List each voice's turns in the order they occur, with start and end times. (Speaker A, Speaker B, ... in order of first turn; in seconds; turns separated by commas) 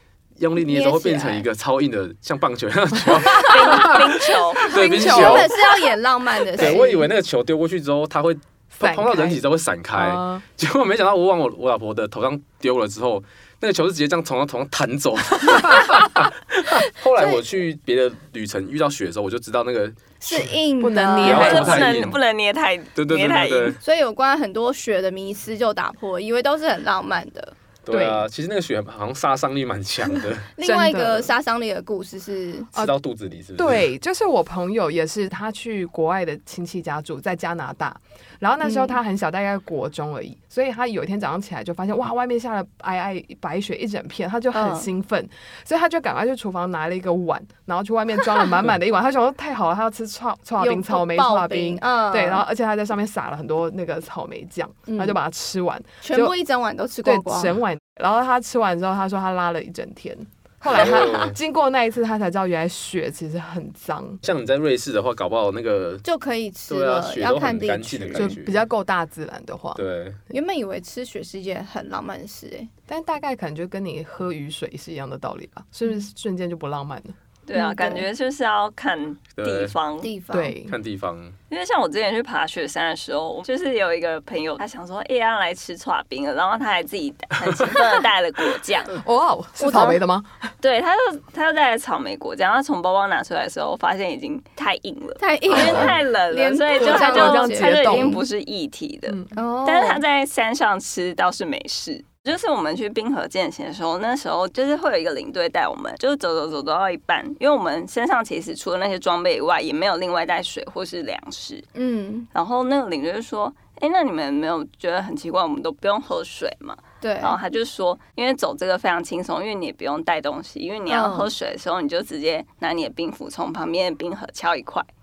Speaker A: 0.4-5.5, Speaker B: 0.6-1.5, Speaker C: 3.2-4.8, Speaker D: 3.6-4.0, Speaker D: 4.6-5.6, Speaker B: 4.8-7.1, Speaker A: 6.5-20.5, Speaker D: 8.8-9.4, Speaker D: 9.9-10.4, Speaker B: 20.2-21.8, Speaker D: 20.8-22.1, Speaker A: 21.2-22.2, Speaker C: 21.2-23.8, Speaker A: 22.9-23.8, Speaker B: 23.8-27.5, Speaker A: 27.8-30.5, Speaker D: 27.9-28.3, Speaker B: 30.6-32.7, Speaker D: 30.6-31.3, Speaker A: 32.7-33.9, Speaker D: 33.5-56.4, Speaker B: 38.6-39.0, Speaker B: 44.5-44.9, Speaker B: 50.6-52.4, Speaker B: 54.9-55.2, Speaker B: 56.0-57.5, Speaker D: 57.0-64.2, Speaker A: 60.7-61.4, Speaker A: 64.2-66.0, Speaker B: 66.0-68.3, Speaker A: 66.7-68.6, Speaker D: 68.1-69.8, Speaker A: 69.7-70.2, Speaker B: 70.3-72.7, Speaker D: 72.9-77.1, Speaker C: 77.5-80.1, Speaker B: 77.5-78.0, Speaker A: 79.4-79.7, Speaker B: 80.0-80.5, Speaker D: 80.3-80.8, Speaker A: 80.7-81.3, Speaker C: 81.5-89.0, Speaker D: 88.9-90.4, Speaker B: 89.6-90.0, Speaker C: 90.6-111.7, Speaker B: 95.2-98.2, Speaker D: 95.5-95.9, Speaker D: 96.7-98.2, Speaker B: 99.3-100.0, Speaker B: 111.7-112.3, Speaker C: 112.3-124.9, Speaker B: 117.0-117.4, Speaker B: 120.9-121.3